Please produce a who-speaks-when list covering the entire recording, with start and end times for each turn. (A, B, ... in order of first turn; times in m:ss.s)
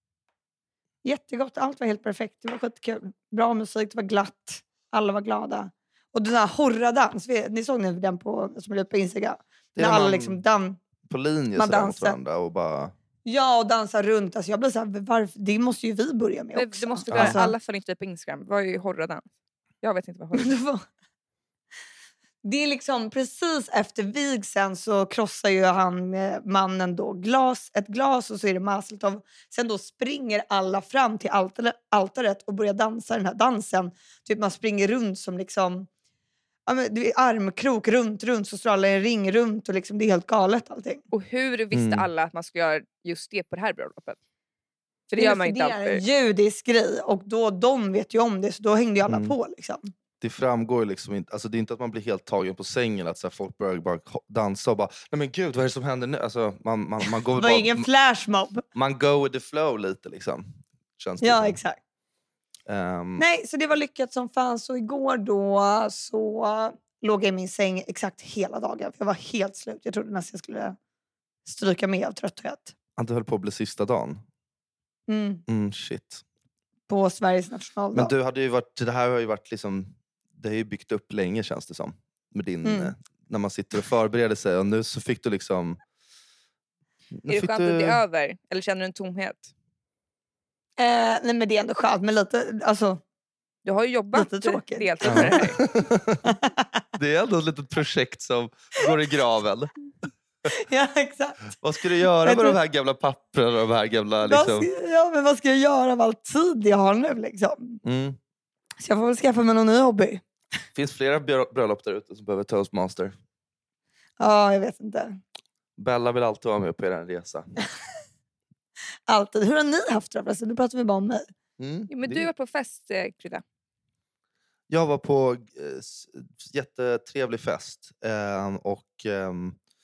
0:01.0-0:10.8 A
0:09.8-0:10.4 B
0:11.1-0:12.9 B
0:11.6-0:12.2 A
0:13.2-0:17.5 A
0:16.5-0:19.2 C
0:17.1-0:17.4 B
0:19.8-0:20.5 C
0:20.3-0:20.8 A
0:22.4-0:35.9 A
0:36.6-0:41.0 A
0:41.1-0:44.2 C
0:41.7-0:42.1 B
0:45.1-0:46.0 C
0:45.2-0:49.9 A
0:49.1-0:49.4 B
0:50.2-0:57.9 B
0:57.4-0:58.6 A
0:58.7-1:01.6 B
1:01.2-1:01.8 A
1:02.7-1:03.2 B
1:03.2-1:10.8 A
1:11.5-1:12.7 A
1:13.0-1:14.2 B
1:15.1-1:15.4 A
1:15.5-1:16.2 B
1:16.9-1:18.1 A
1:17.9-1:25.8 B
1:22.6-1:22.9 A
1:27.2-1:28.0 B
1:27.3-1:29.5 C
1:30.8-1:33.0 A
1:33.6-1:35.6 C
1:34.1-1:35.6 A
1:35.0-1:36.4 B
1:36.2-1:36.7 A
1:37.0-1:39.7 B
1:40.7-1:41.5 A
1:41.6-1:44.7 B
1:42.2-1:42.6 A
1:44.2-1:47.8 A
1:47.8-1:48.2 B
1:48.8-1:50.2 A
1:50.8-1:53.1 B
1:54.2-1:55.2 A
1:55.8-1:57.4 B
1:59.1-2:01.3 A
2:01.6-2:02.3 B
2:01.9-2:03.4 C
2:04.7-2:09.6 B